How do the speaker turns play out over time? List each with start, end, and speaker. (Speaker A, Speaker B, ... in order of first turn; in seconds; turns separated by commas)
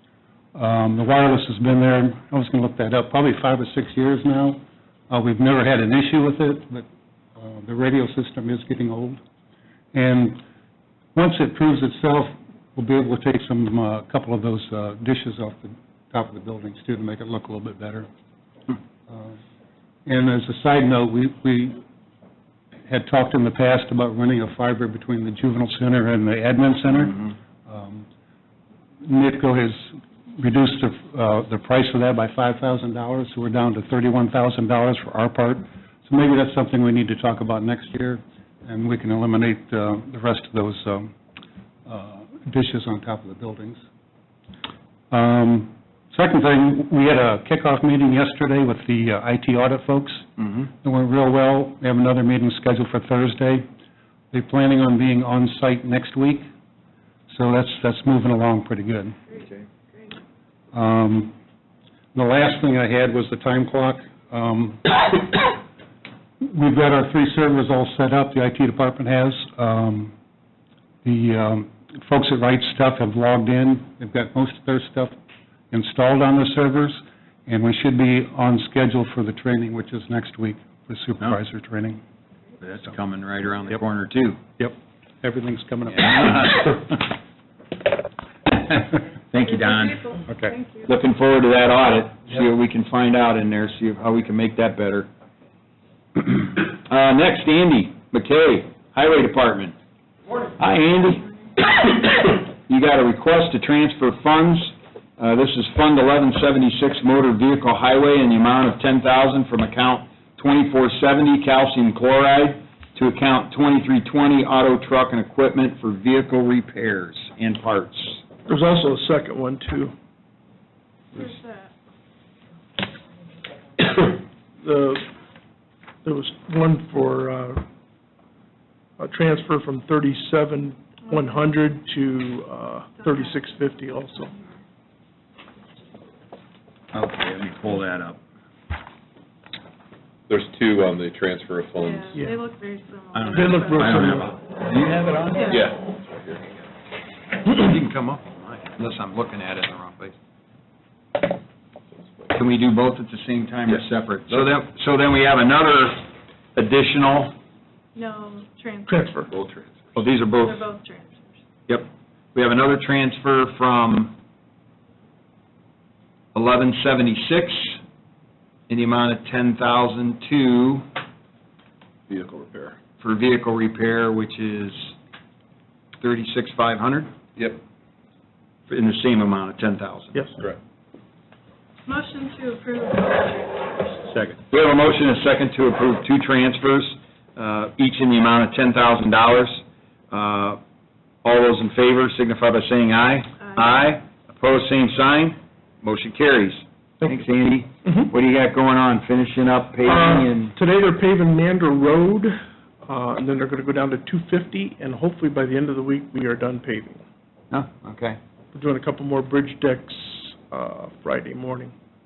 Speaker A: 0.5-9.2, Speaker A: 9.9-10.4, Speaker A: 11.1-18.1, Speaker A: 19.1-19.4, Speaker A: 20.1-21.8, Speaker A: 22.9-28.1, Speaker A: 29.0-41.1, Speaker A: 41.9-43.8, Speaker A: 45.1-53.7, Speaker A: 54.3-56.5, Speaker A: 57.3-59.2, Speaker A: 60.7-61.3, Speaker A: 62.1-65.4, Speaker A: 66.4-70.1, Speaker A: 71.0-75.2, Speaker A: 75.7-82.0, Speaker B: 82.6-84.4, Speaker A: 84.6-86.9, Speaker B: 85.9-86.8, Speaker B: 89.3-90.2, Speaker C: 89.4-90.9, Speaker A: 90.3-90.5, Speaker B: 90.8-95.1, Speaker B: 96.2-99.8, Speaker B: 100.6-118.2, Speaker D: 118.5-119.9, Speaker C: 121.1-121.7, Speaker D: 123.9-125.0, Speaker D: 126.0-127.7, Speaker D: 129.0-134.3, Speaker C: 131.1-131.5, Speaker C: 133.0-134.6, Speaker B: 136.9-138.2, Speaker E: 140.3-142.2, Speaker C: 141.8-145.8, Speaker B: 143.1-145.5, Speaker D: 143.3-144.3, Speaker E: 145.5-146.5, Speaker B: 147.4-150.2, Speaker B: 152.3-157.3, Speaker C: 157.9-159.3, Speaker D: 158.8-159.3, Speaker E: 159.3-159.9, Speaker B: 159.9-160.6, Speaker C: 160.3-161.4, Speaker B: 161.7-164.1, Speaker B: 166.3-167.8, Speaker B: 168.7-170.9, Speaker E: 172.1-172.8, Speaker B: 173.0-174.9, Speaker B: 176.0-177.1, Speaker B: 178.7-180.2, Speaker C: 181.8-184.1, Speaker B: 184.3-190.6, Speaker B: 191.2-200.5, Speaker D: 197.8-198.1, Speaker D: 199.8-207.0, Speaker B: 207.5-208.2, Speaker D: 208.5-211.7